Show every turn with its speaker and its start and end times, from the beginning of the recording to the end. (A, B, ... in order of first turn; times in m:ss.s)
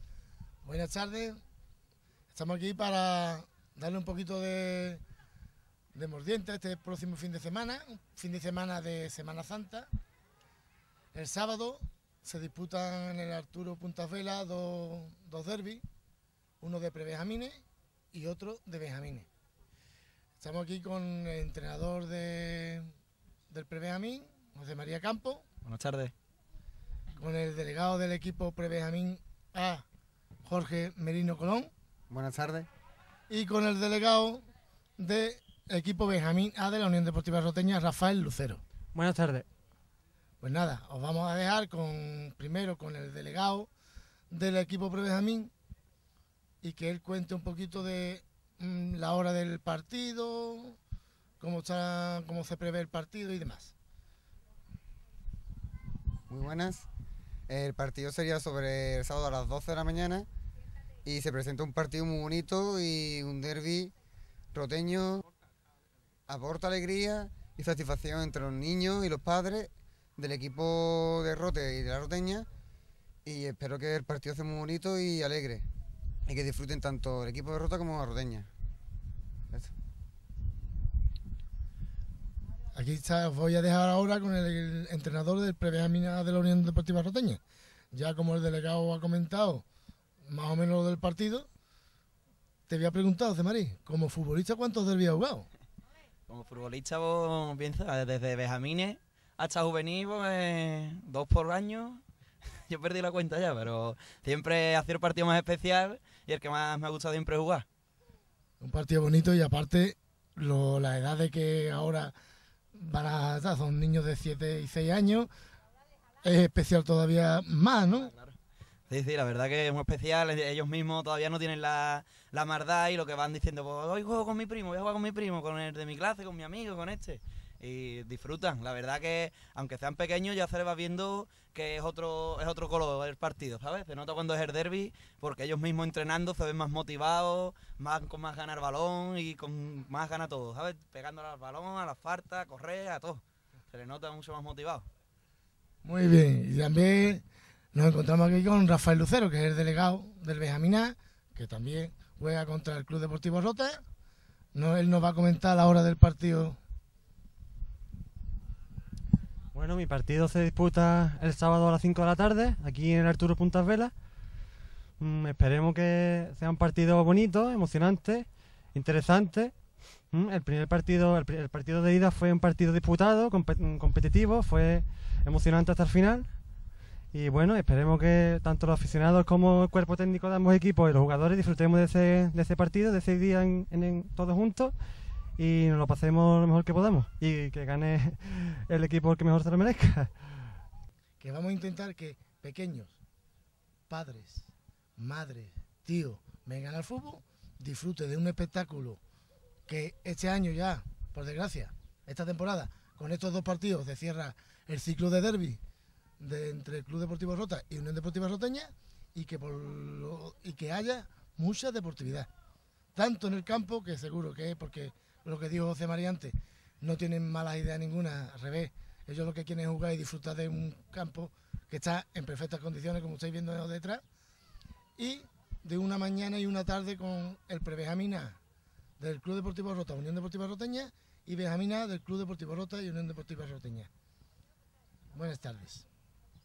0:00.6-0:01.4 A
0:02.3-0:05.0 A
0:05.9-0:09.9 A
0:11.1-0:15.8 A
0:16.6-0:19.3 A
0:20.4-0:22.9 A
0:23.5-0:25.4 A
0:25.6-0:26.1 B
0:27.2-0:29.8 A
0:30.4-0:31.7 A
0:32.1-0:32.7 C
0:33.3-0:34.4 A
0:35.0-0:38.6 A
0:38.9-0:39.4 D
0:40.4-0:43.7 A
0:44.3-0:45.5 A
0:46.6-0:50.8 A
0:51.4-0:53.7 A
0:56.3-0:56.8 C
0:57.5-1:00.2 C
1:01.0-1:03.9 C
1:04.5-1:05.1 C
1:06.3-1:12.5 C
1:13.2-1:15.6 C
1:16.3-1:18.5 C
1:22.7-1:27.4 A
1:27.9-1:29.6 A
1:30.2-1:31.5 A
1:32.7-1:35.5 A
1:36.3-1:42.0 B
1:42.7-1:47.6 B
1:48.6-1:52.1 A
1:52.7-1:55.3 A
1:56.2-1:58.1 A
1:58.0-1:58.4 B
1:58.9-2:24.8 B
2:25.8-2:33.8 A
2:34.5-2:36.6 A
2:39.5-2:44.0 D
2:45.0-2:56.5 D
2:57.1-3:04.8 D
3:05.4-3:10.6 D
3:11.2-3:13.0 A
3:13.9-3:19.0 A
3:19.7-3:25.6 A
3:26.2-3:32.3 A
3:32.9-3:44.0 A
3:45.0-3:48.4 A
3:49.0-3:53.9 A
3:55.1-3:55.8 A